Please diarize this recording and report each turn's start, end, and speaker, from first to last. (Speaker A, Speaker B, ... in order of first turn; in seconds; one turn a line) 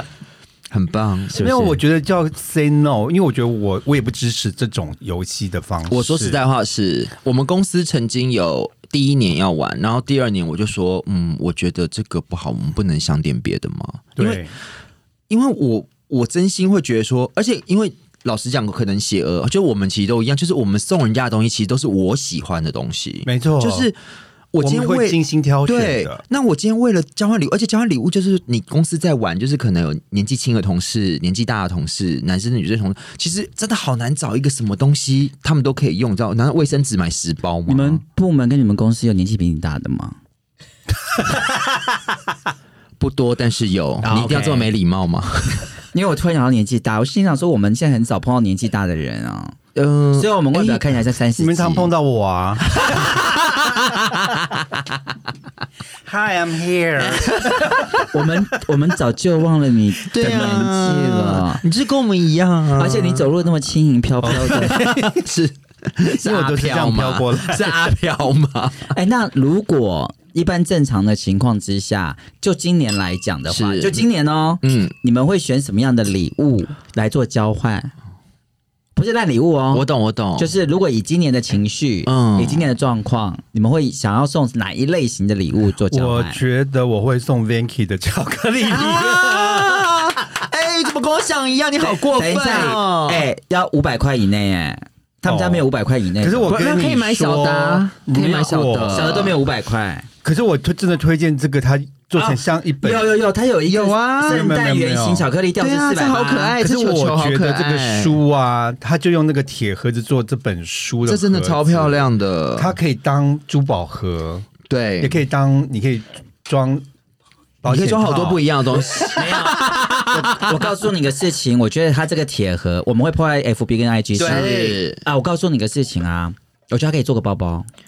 Speaker A: 0.7-1.5
Speaker B: 1.3-6.4
Speaker C: 1.4-1.8
Speaker A: 5.9-14.4
Speaker B: 14.2-14.5
Speaker A: 15.3-24.0
Speaker B: 23.2-23.9
Speaker A: 24.5-38.0
Speaker B: 24.5-26.2
Speaker C: 37.7-40.1
Speaker A: 43.0-45.7
Speaker C: 44.0-44.7
Speaker C: 45.9-49.6
Speaker A: 49.7-50.8
Speaker C: 50.1-51.9
Speaker B: 51.4-53.1
Speaker A: 52.7-54.7
Speaker B: 56.1-58.0
Speaker A: 57.2-57.9
Speaker C: 58.1-61.6
Speaker A: 60.1-63.3
Speaker C: 62.8-64.9
Speaker B: 64.2-65.3
Speaker A: 64.3-68.9
Speaker B: 66.2-67.8
Speaker C: 68.9-77.9
Speaker A: 73.5-74.0
Speaker A: 74.6-74.9
Speaker C: 78.9-86.4
Speaker A: 79.7-80.5
Speaker A: 82.0-82.7
Speaker B: 85.9-90.0
Speaker A: 88.7-93.3
Speaker C: 91.8-96.6
Speaker B: 92.3-92.8
Speaker B: 95.2-95.7
Speaker B: 96.2-99.3
Speaker A: 96.5-99.4
Speaker C: 98.9-100.1
Speaker B: 100.2-103.1
Speaker C: 102.1-106.5
Speaker A: 103.7-104.5
Speaker B: 104.2-105.3
Speaker A: 105.6-108.2
Speaker B: 106.6-116.8
Speaker A: 111.0-112.8
Speaker A: 114.7-115.2
Speaker B: 117.6-119.0
Speaker A: 117.6-120.7
Speaker C: 119.1-127.7
Speaker B: 124.2-124.7
Speaker A: 124.2-125.0